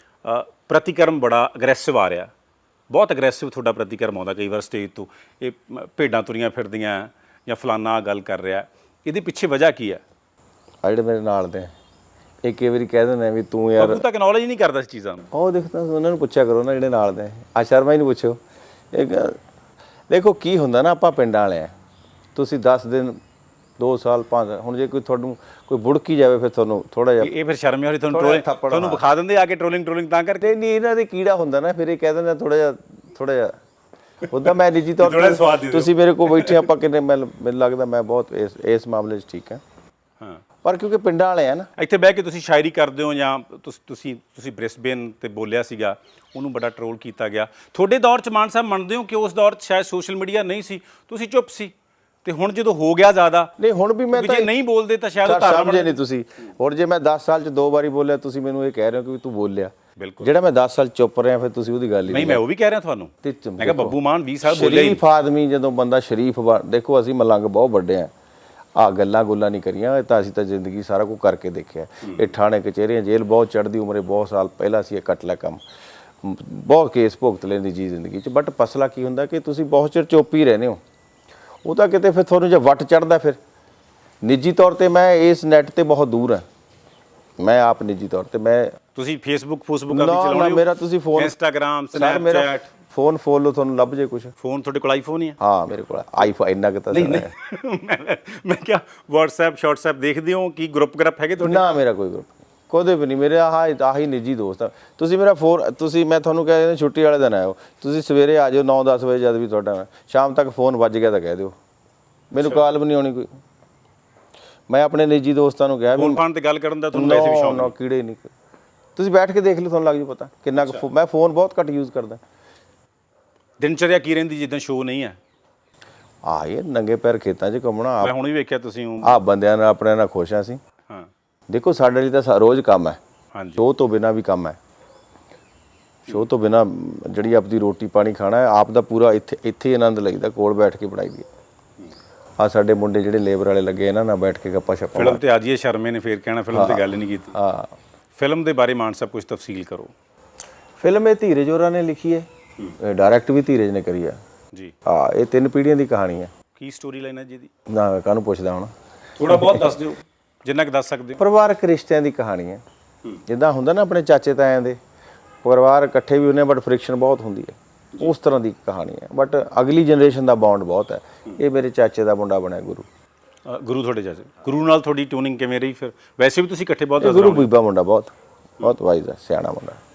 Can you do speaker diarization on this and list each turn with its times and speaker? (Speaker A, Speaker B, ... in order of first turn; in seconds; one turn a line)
Speaker A: 0.2-2.3
Speaker A: 2.9-10.0
Speaker B: 10.8-11.7
Speaker B: 12.4-14.0
Speaker A: 13.8-15.3
Speaker B: 15.3-18.4
Speaker B: 18.9-19.4
Speaker B: 20.1-21.7
Speaker B: 22.3-23.2
Speaker B: 23.8-27.3
Speaker A: 27.2-30.5
Speaker B: 28.1-29.0
Speaker B: 30.4-33.5
Speaker B: 34.3-39.6
Speaker A: 35.0-36.7
Speaker B: 40.6-41.7
Speaker A: 41.8-51.7
Speaker A: 52.2-53.5
Speaker B: 53.6-54.5
Speaker A: 54.1-56.0
Speaker B: 55.2-62.4
Speaker A: 60.0-60.3
Speaker A: 62.1-65.0
Speaker B: 63.2-68.1
Speaker B: 68.8-75.6
Speaker B: 76.2-80.8
Speaker B: 81.6-83.4
Speaker B: 84.2-86.4
Speaker B: 87.4-88.7
Speaker A: 88.9-92.7
Speaker B: 89.9-91.3
Speaker B: 91.9-94.3
Speaker A: 94.4-95.4
Speaker B: 95.4-97.3
Speaker A: 96.9-101.7
Speaker B: 101.4-111.5
Speaker B: 112.3-113.3
Speaker B: 114.7-116.2
Speaker A: 116.0-117.7
Speaker B: 116.9-118.3
Speaker B: 119.0-122.2
Speaker A: 120.6-120.8
Speaker A: 123.6-125.2
Speaker B: 126.2-128.1
Speaker A: 128.0-129.2
Speaker B: 129.0-130.6
Speaker B: 131.5-133.0
Speaker A: 133.3-133.6
Speaker B: 133.6-134.6
Speaker B: 136.1-141.3
Speaker B: 142.4-145.2
Speaker A: 144.9-147.3
Speaker B: 146.5-147.7
Speaker A: 148.2-149.9
Speaker B: 150.8-152.3
Speaker B: 152.8-154.2
Speaker B: 154.8-156.3
Speaker A: 156.5-157.5
Speaker B: 157.7-159.8
Speaker A: 159.2-161.2
Speaker B: 161.2-162.6
Speaker B: 163.2-164.8
Speaker B: 165.4-172.8
Speaker A: 173.4-177.5
Speaker B: 177.0-179.8